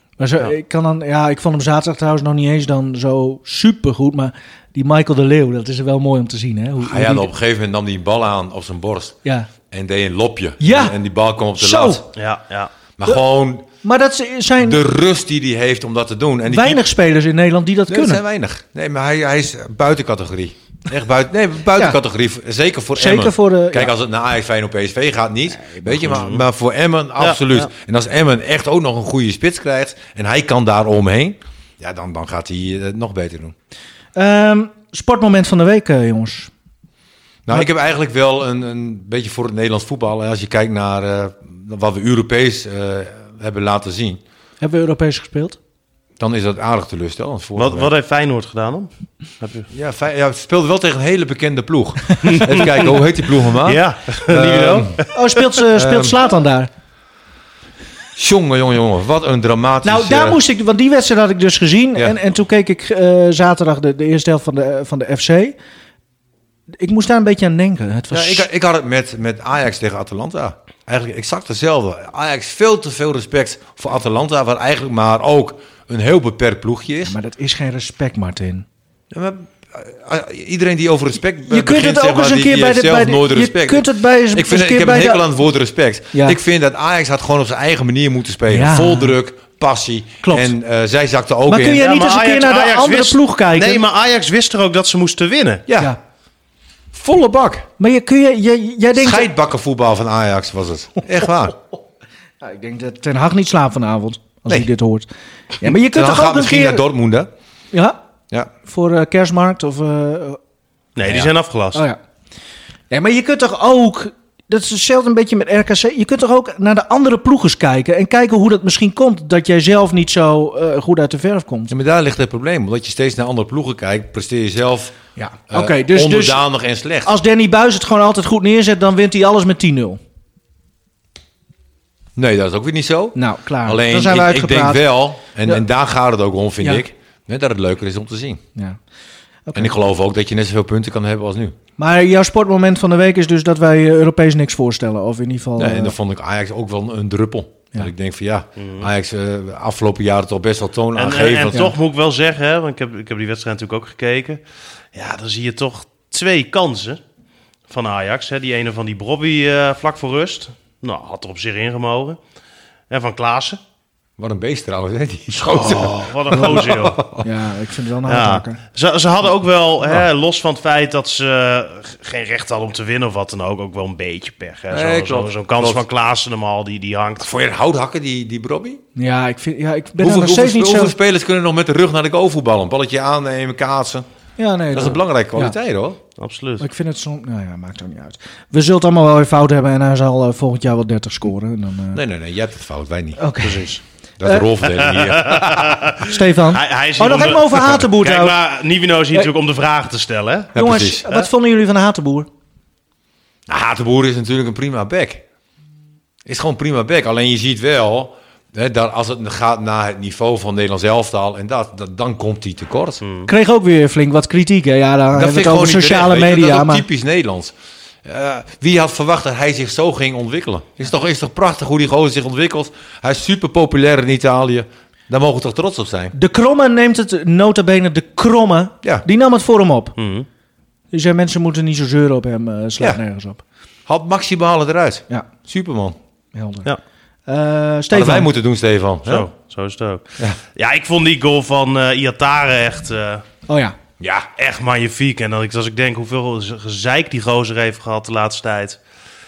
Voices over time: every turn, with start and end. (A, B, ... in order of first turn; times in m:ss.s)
0:00.2-0:07.3 A
0:06.8-0:09.2 B
0:09.7-0:12.0 B
0:10.6-0:10.9 A
0:11.6-0:12.0 A
0:12.2-0:12.7 C
0:13.0-0:13.7 B
0:13.8-0:14.8 A
0:14.6-0:16.8 B
0:16.5-0:18.2 A
0:17.9-0:33.5 B
0:23.0-0:23.9 A
0:26.0-0:26.4 C
0:27.2-0:27.7 C
0:34.2-0:36.5 A
0:37.4-0:44.2 B
0:44.6-0:45.6 A
0:46.2-0:47.9 B
0:47.6-0:48.9 C
0:49.4-0:49.7 C
0:49.7-0:55.0 B
0:52.2-0:53.0 C
0:53.6-0:55.1 C
0:55.1-0:56.7 A
0:55.7-0:56.1 B
0:58.2-1:00.4 B
0:59.8-1:05.6 A
1:06.8-1:08.5 A
1:08.1-1:17.2 B
1:17.0-1:18.6 A
1:19.1-1:31.8 B
1:21.4-1:25.2 A
1:26.1-1:26.4 A
1:28.5-1:29.1 A
1:30.2-1:30.5 A
1:31.5-1:33.8 A
1:31.8-1:35.6 C
1:35.7-1:35.9 B
1:36.9-1:37.7 B
1:37.8-1:39.3 A
1:39.0-1:41.6 B
1:42.4-1:45.1 A
1:45.6-1:46.8 A
1:45.6-1:47.3 B
1:47.7-1:48.0 A
1:48.6-1:50.4 A
1:51.0-1:51.8 C
1:51.0-1:51.3 B
1:52.9-2:01.7 A
2:01.7-2:05.0 B
2:05.2-2:06.4 A
2:05.5-2:07.1 B
2:07.0-2:10.0 A
2:12.2-2:18.4 B
2:13.1-2:14.8 A
2:19.4-2:19.7 A
2:19.5-2:21.6 B
2:21.8-2:25.9 A
2:25.6-2:31.7 B
2:28.6-2:28.9 C
2:31.0-2:34.4 C
2:34.9-2:37.0 C
2:37.7-2:42.2 C
2:42.9-2:43.6 C
2:44.2-2:47.3 B
2:45.4-2:47.0 C
2:47.2-2:48.6 A
2:48.1-2:57.3 C
2:54.7-2:55.8 B
2:57.2-2:58.8 B
2:59.0-3:00.9 A
3:00.0-3:04.0 B
3:04.4-3:05.5 A
3:04.7-3:06.0 B
3:06.2-3:06.6 C
3:06.6-3:12.0 A
3:11.9-3:13.2 B
3:13.2-3:14.5 A
3:13.4-3:13.8 C
3:14.2-3:15.8 B
3:14.6-3:20.5 C
3:16.0-3:18.4 A
3:20.5-3:21.1 B
3:20.6-3:22.3 A
3:23.5-3:25.2 B
3:26.2-3:33.0 B
3:33.0-3:33.3 C
3:33.3-3:36.8 A
3:35.1-3:37.5 B
3:38.0-3:46.1 B
3:46.1-3:49.9 A
3:50.0-3:50.3 C
3:50.9-3:53.4 A
3:53.9-3:56.0 B
3:56.3-3:56.7 A
3:57.3-3:58.3 A
3:57.9-3:59.3 B
3:59.0-4:03.2 C
4:03.5-4:03.8 A
4:04.0-4:04.3 B
4:04.4-4:08.8 C